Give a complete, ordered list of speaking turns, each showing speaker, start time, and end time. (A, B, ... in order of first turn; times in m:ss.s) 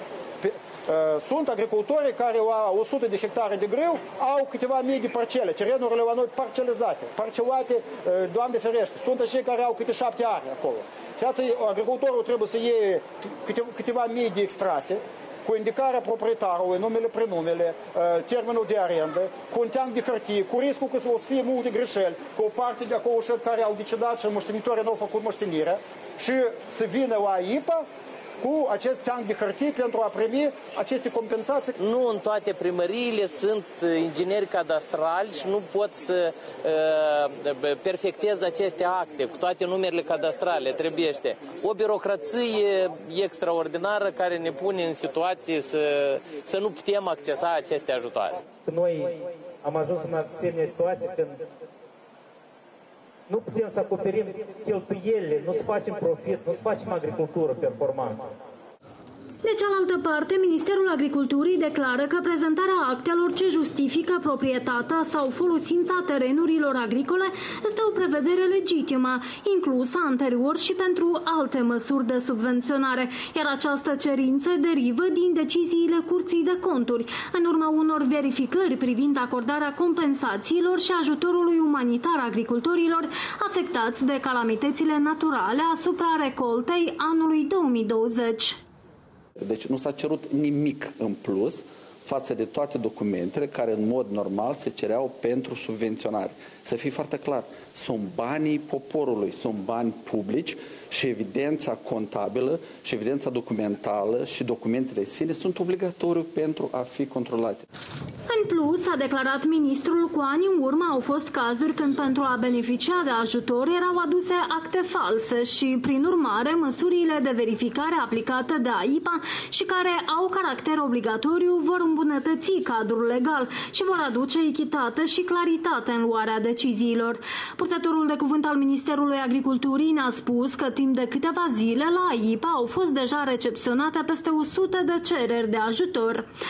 0:00.4-0:27.9 A
0:28.4-0:31.8 A
0:31.8-0:48.4 B
0:48.6-0:51.4 C
0:53.3-0:58.3 C
0:59.4-1:28.6 D
1:29.4-1:47.6 E
1:48.3-2:16.3 D